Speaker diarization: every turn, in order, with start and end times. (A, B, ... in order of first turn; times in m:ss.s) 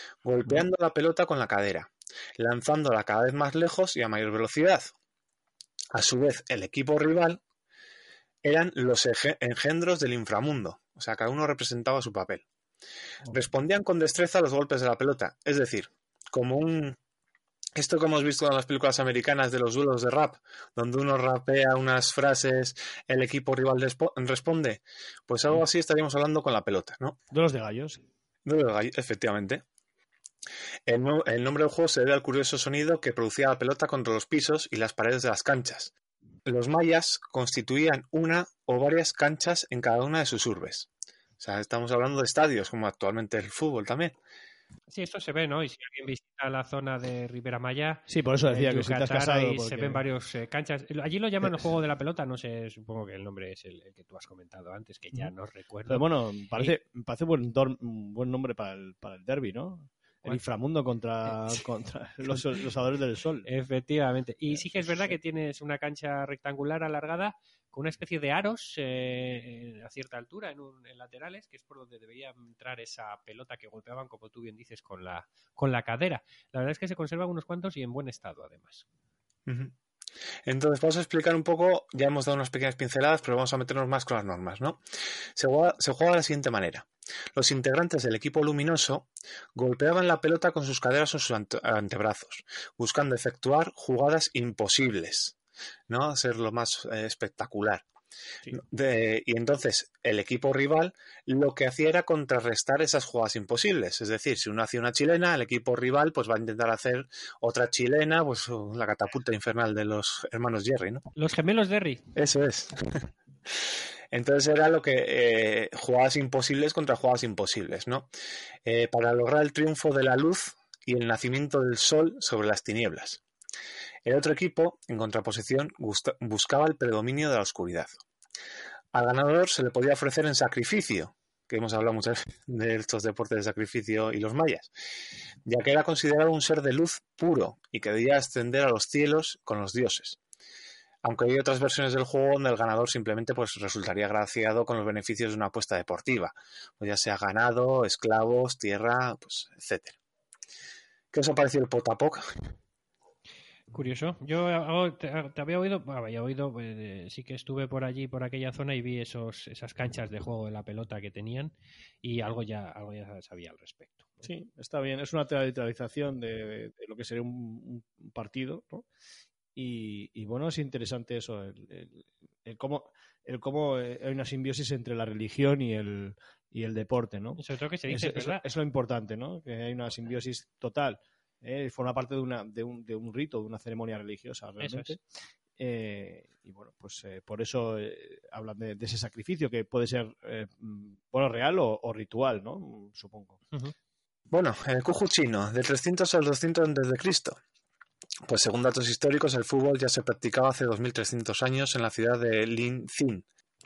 0:00.2-0:04.9 A
0:05.9-0:07.4 A
0:08.4-0:12.4 A
0:13.3-0:17.0 A
0:17.8-0:27.2 A
0:27.3-0:28.0 B
0:28.4-0:29.6 A
0:30.9-0:35.9 A
0:36.4-0:40.9 A
0:41.4-0:44.1 A
0:44.9-0:56.7 C
0:48.1-0:50.0 B
0:55.9-1:03.5 B
1:01.3-1:01.5 C
1:03.4-1:18.8 C
1:04.5-1:05.2 B
1:19.5-1:19.7 A
1:20.4-1:24.8 A
1:25.4-1:35.3 A
1:35.9-1:37.8 A
1:38.5-1:51.0 A
1:51.1-1:52.0 C
1:52.1-1:53.1 A
1:54.1-1:58.1 A
1:58.6-2:03.2 A
2:04.0-2:07.9 A
2:08.9-2:14.7 A
2:15.4-2:20.2 A
2:21.0-2:30.0 A
2:31.1-2:32.2 A
2:33.7-2:41.5 C
2:42.0-2:44.3 C
2:44.2-2:48.8 B
2:49.5-3:05.0 B
2:57.4-2:58.4 C
3:04.6-3:05.0 C
3:05.6-3:13.4 B
3:14.3-3:17.4 A
3:18.3-3:23.2 A